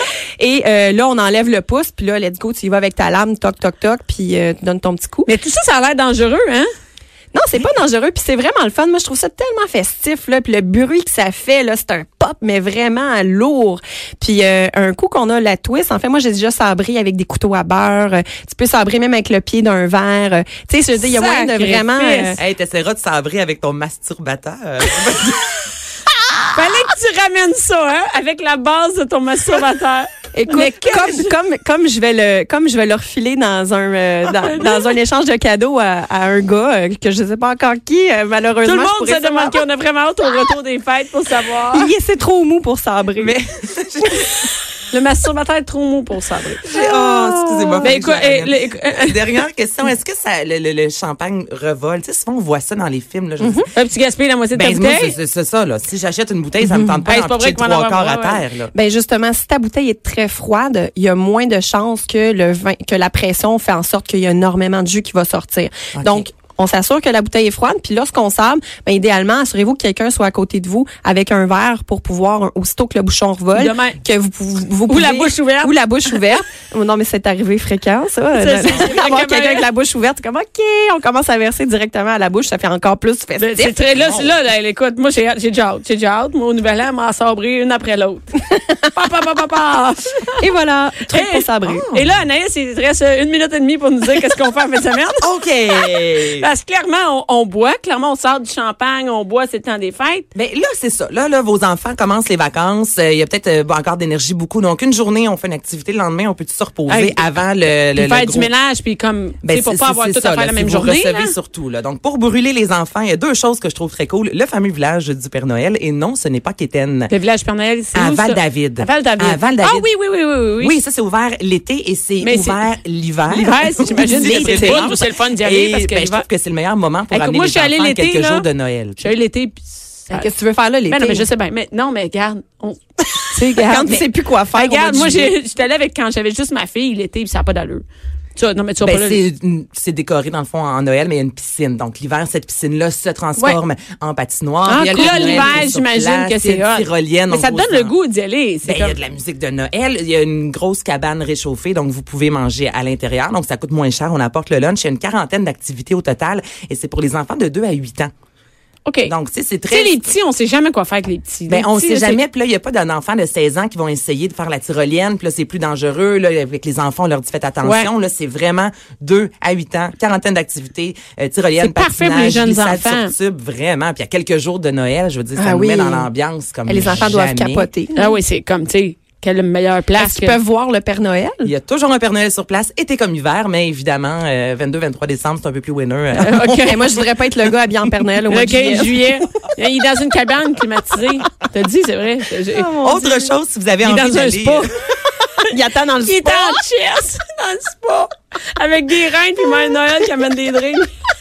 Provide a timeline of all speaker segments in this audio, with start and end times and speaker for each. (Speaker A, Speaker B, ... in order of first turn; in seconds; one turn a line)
Speaker A: 0.4-5.3
Speaker B: 5.3-6.7
Speaker A: 7.3-22.4
Speaker B: 21.0-22.4
Speaker C: 22.4-25.6
Speaker B: 26.5-31.4
Speaker A: 30.3-39.6
Speaker B: 34.5-34.9
Speaker B: 38.6-41.9
Speaker A: 41.7-43.4
Speaker C: 43.2-44.5
Speaker B: 44.9-46.6
Speaker C: 46.6-53.7
Speaker A: 46.8-47.9
Speaker B: 47.8-49.2
Speaker A: 53.4-53.7
Speaker B: 53.8-55.2
Speaker C: 54.5-58.7
Speaker B: 57.0-58.4
Speaker A: 58.7-83.8
Speaker C: 66.0-66.2
Speaker B: 73.5-74.0
Speaker B: 74.9-75.8
Speaker B: 78.3-79.7
Speaker B: 83.4-88.3
Speaker C: 83.9-84.4
Speaker B: 88.9-90.4
Speaker A: 90.4-91.9
Speaker B: 91.1-95.2
Speaker C: 95.2-96.5
Speaker B: 95.8-100.3
Speaker C: 100.3-108.5
Speaker B: 106.9-107.3
Speaker B: 108.0-111.3
Speaker C: 109.4-117.1
Speaker B: 117.1-120.8
Speaker C: 117.9-119.9
Speaker C: 120.6-129.0
Speaker B: 122.2-122.6
Speaker B: 123.3-126.3
Speaker A: 124.1-124.9
Speaker B: 127.1-128.5
Speaker B: 129.0-130.3
Speaker A: 130.1-131.3
Speaker B: 130.9-137.8
Speaker A: 133.6-135.3
Speaker B: 138.4-139.2
Speaker C: 138.8-147.9
Speaker A: 144.7-145.6
Speaker B: 144.7-149.0
Speaker C: 148.6-158.1
Speaker B: 158.9-159.1
Speaker C: 159.1-160.0
Speaker B: 159.7-162.2
Speaker C: 161.5-177.7
Speaker B: 167.6-167.9
Speaker B: 171.6-173.1
Speaker A: 175.4-176.1
Speaker A: 176.7-178.2
Speaker B: 177.9-180.4
Speaker A: 180.0-181.5
Speaker C: 181.4-187.1
Speaker A: 186.2-189.1
Speaker B: 186.2-186.9
Speaker B: 188.3-192.7
Speaker A: 192.5-193.3
Speaker C: 192.8-194.7
Speaker B: 193.8-194.7
Speaker A: 195.4-196.6
Speaker B: 196.0-200.9